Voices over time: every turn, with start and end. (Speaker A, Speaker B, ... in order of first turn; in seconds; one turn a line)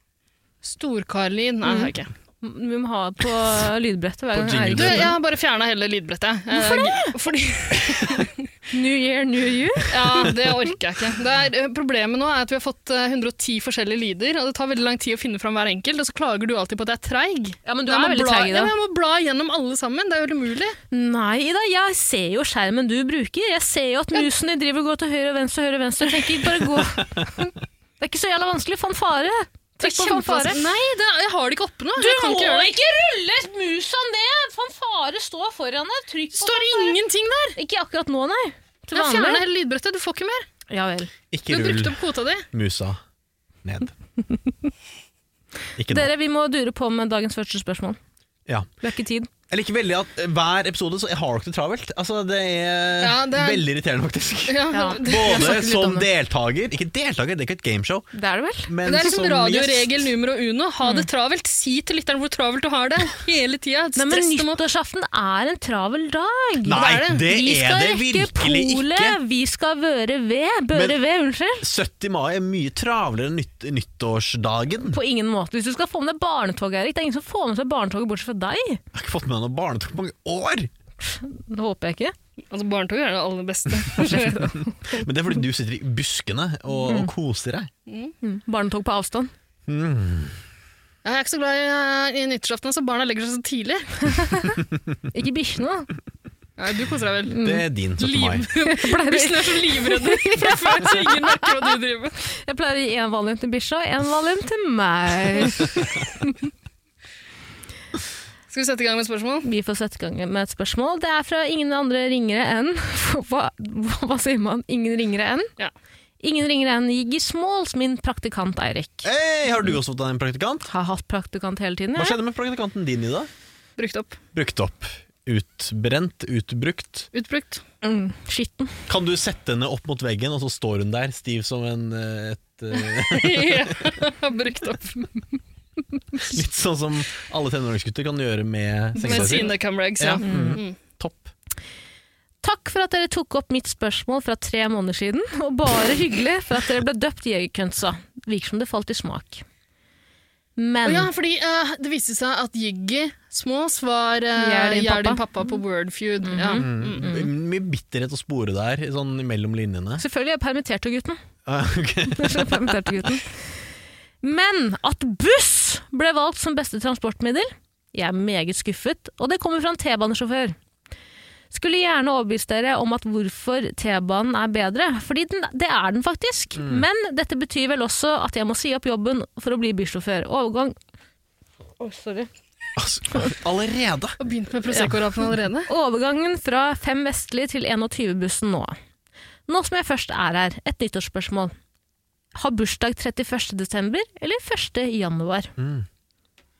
Speaker A: 0.6-2.1
Speaker B: 1.6-5.1
Speaker C: 4.3-5.1
Speaker A: 4.7-8.4
Speaker B: 6.5-7.1
Speaker B: 8.7-10.5
Speaker A: 9.9-20.8
Speaker B: 17.6-18.7
Speaker B: 20.9-30.6
Speaker A: 29.8-32.7
Speaker B: 32.0-37.0
Speaker A: 36.4-37.6
Speaker B: 37.5-39.5
Speaker A: 38.9-40.5
Speaker B: 40.7-41.1
Speaker C: 41.3-42.0
Speaker A: 41.5-42.5
Speaker C: 42.5-43.0
Speaker C: 43.6-43.9
Speaker C: 45.8-46.1
Speaker B: 45.9-48.0
Speaker B: 48.8-49.3
Speaker C: 49.5-58.1
Speaker A: 53.0-53.6
Speaker A: 54.5-55.5
Speaker B: 54.7-56.1
Speaker B: 58.1-58.7
Speaker C: 58.6-59.9
Speaker A: 58.8-64.6
Speaker B: 64.0-71.7
Speaker C: 66.6-69.2
Speaker A: 66.7-67.2
Speaker C: 70.7-71.0
Speaker C: 71.6-75.0
Speaker B: 74.9-78.8
Speaker C: 78.9-80.7
Speaker B: 81.0-82.1
Speaker A: 82.5-84.5
Speaker B: 84.0-84.7
Speaker C: 84.8-87.7
Speaker B: 86.8-87.1
Speaker A: 87.9-88.1
Speaker B: 88.2-89.3
Speaker C: 89.7-90.3
Speaker A: 91.0-94.1
Speaker B: 94.1-94.6
Speaker B: 95.1-95.9
Speaker A: 96.6-97.4
Speaker B: 97.3-97.6
Speaker C: 97.4-98.5
Speaker A: 98.0-102.1
Speaker B: 98.5-101.8
Speaker B: 102.3-106.5
Speaker A: 108.5-109.5
Speaker B: 109.4-115.5
Speaker B: 116.2-119.1
Speaker C: 119.0-120.7
Speaker B: 120.7-122.2
Speaker C: 122.0-123.3
Speaker A: 123.8-124.2
Speaker C: 124.3-127.1
Speaker A: 127.1-127.6
Speaker B: 127.8-128.8
Speaker C: 128.9-133.8
Speaker A: 132.7-135.1
Speaker C: 136.2-141.3
Speaker A: 138.9-140.8
Speaker B: 139.0-139.3
Speaker B: 140.2-140.6
Speaker B: 142.4-149.4
Speaker B: 150.6-151.1
Speaker A: 150.8-157.1
Speaker B: 154.3-155.5
Speaker B: 156.2-157.3
Speaker C: 156.6-160.0
Speaker B: 160.0-161.2
Speaker C: 161.4-163.1
Speaker B: 162.1-163.4
Speaker B: 164.2-170.6
Speaker B: 171.5-180.7
Speaker C: 176.6-176.8
Speaker B: 181.8-182.3
Speaker C: 182.8-184.2
Speaker A: 184.2-185.7
Speaker B: 185.7-188.8
Speaker B: 189.5-191.5
Speaker B: 192.4-195.5
Speaker C: 195.6-195.9